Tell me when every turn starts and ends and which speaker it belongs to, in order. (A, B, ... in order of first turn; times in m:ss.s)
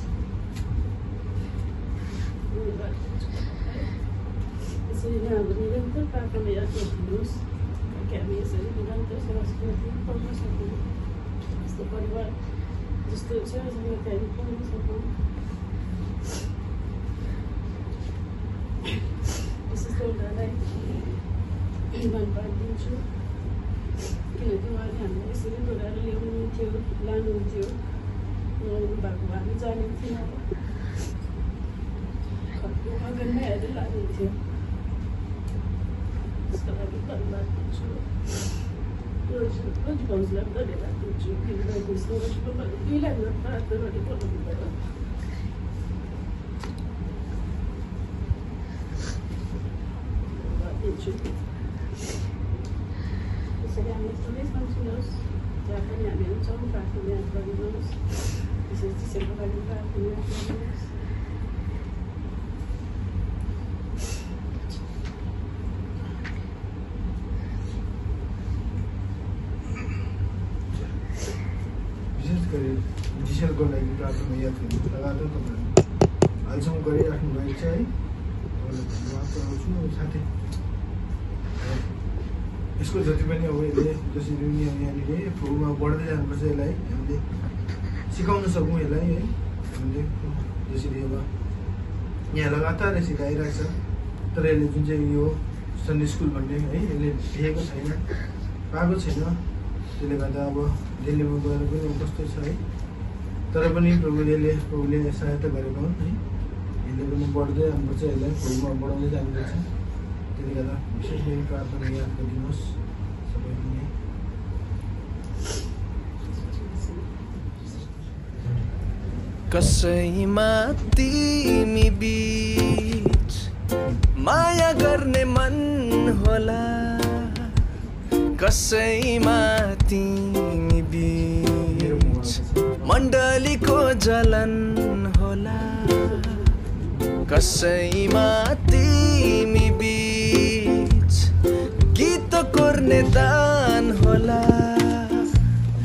0:02.5-0:15.3 A
0:19.6-0:21.2 A
0:21.9-0:23.1 A
0:24.3-0:27.8 A
0:28.6-0:31.0 A
0:32.5-0:34.5 A
0:36.5-0:45.2 A
0:50.2-0:51.8 A
0:53.6-1:01.0 A
1:12.1-1:15.8 B
1:16.4-1:17.9 B
1:18.6-1:20.3 B
1:21.6-1:21.9 B
1:22.8-1:27.2 B
1:28.1-1:31.3 B
1:32.3-1:33.8 B
1:34.3-1:38.0 B
1:38.7-1:39.4 B
1:40.0-1:42.6 B
1:43.5-1:46.2 B
1:46.8-1:49.7 B
1:50.3-1:52.8 B
1:53.3-1:53.9 B
1:56.3-1:57.2 A
1:59.5-2:03.5 C
2:04.2-2:07.7 C
2:08.4-2:12.2 C
2:11.7-2:13.1 B
2:12.8-2:16.5 C
2:17.3-2:21.3 C
2:21.9-2:25.4 C